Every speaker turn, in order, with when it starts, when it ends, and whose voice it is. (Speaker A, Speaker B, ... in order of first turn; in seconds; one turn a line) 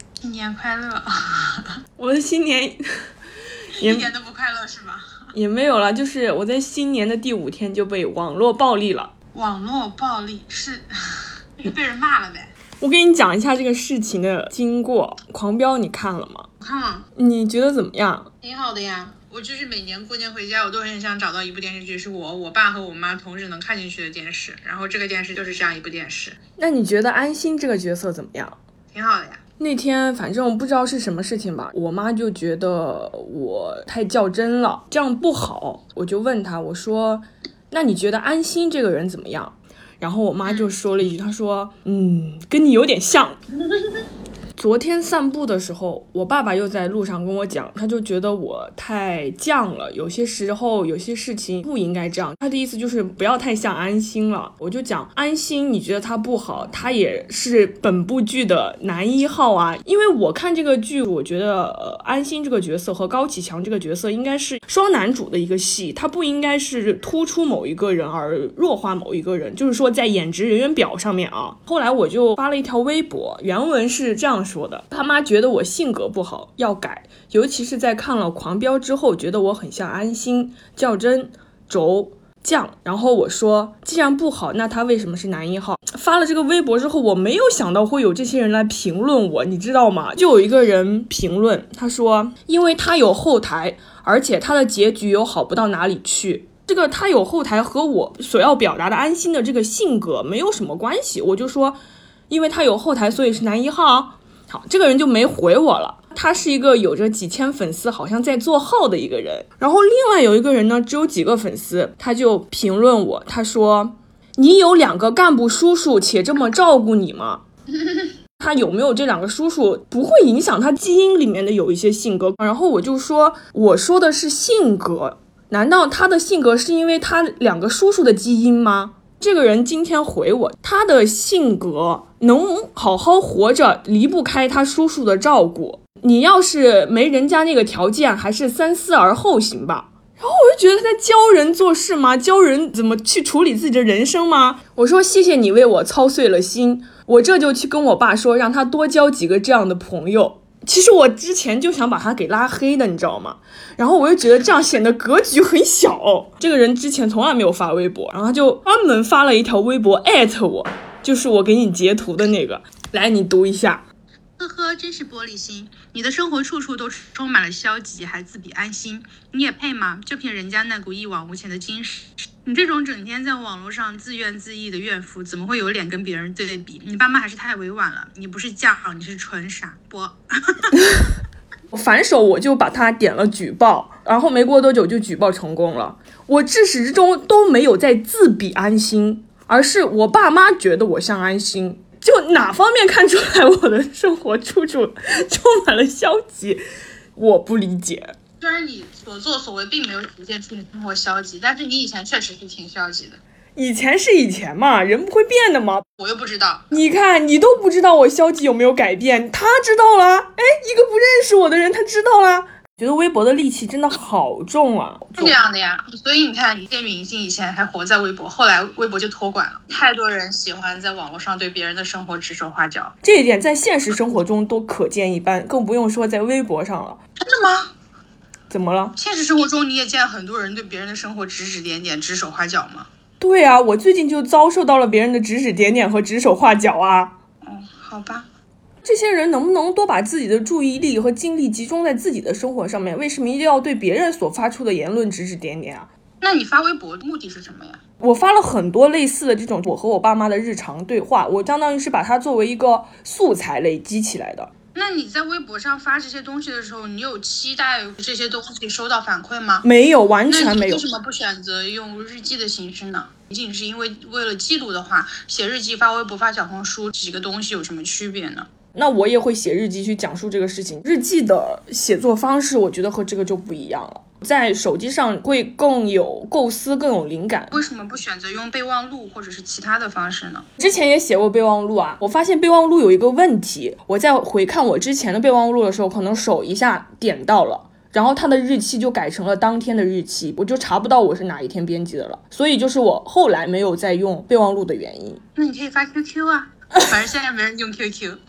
Speaker A: 0.2-1.8
Speaker B: 2.0-3.1
Speaker B: 3.8-4.1
Speaker A: 3.8-5.3
Speaker B: 5.3-9.1
Speaker A: 9.3-12.5
Speaker B: 12.8-16.5
Speaker A: 16.6-17.1
Speaker B: 17.1-18.3
Speaker A: 18.4-26.4
Speaker B: 26.6-28.6
Speaker A: 28.9-29.4
Speaker B: 29.6-43.4
Speaker A: 40.4-40.7
Speaker B: 44.6-117.4
Speaker B: 118.4-163.8
Speaker A: 164.4-180.7
Speaker B: 181.7-196.6
Speaker B: 197.1-198.1
Speaker A: 198.4-203.2
Speaker B: 203.6-205.8
Speaker A: 206.0-206.7
Speaker B: 206.7-215.4
Speaker A: 215.2-222.9
Speaker B: 223.0-227.0
Speaker A: 227.2-227.7
Speaker B: 228.5-228.9
Speaker A: 228.9-232.9
Speaker B: 233.2-237.1
Speaker A: 237.4-238.3
Speaker B: 238.8-245.9
Speaker A: 246.2-247.8
Speaker B: 248.0-254.5
Speaker A: 254.7-259.6
Speaker B: 259.6-260.8
Speaker A: 260.3-268.5
Speaker B: 268.7-277.6
Speaker A: 277.5-280.4
Speaker B: 280.6-295.2
Speaker A: 295.3-298.2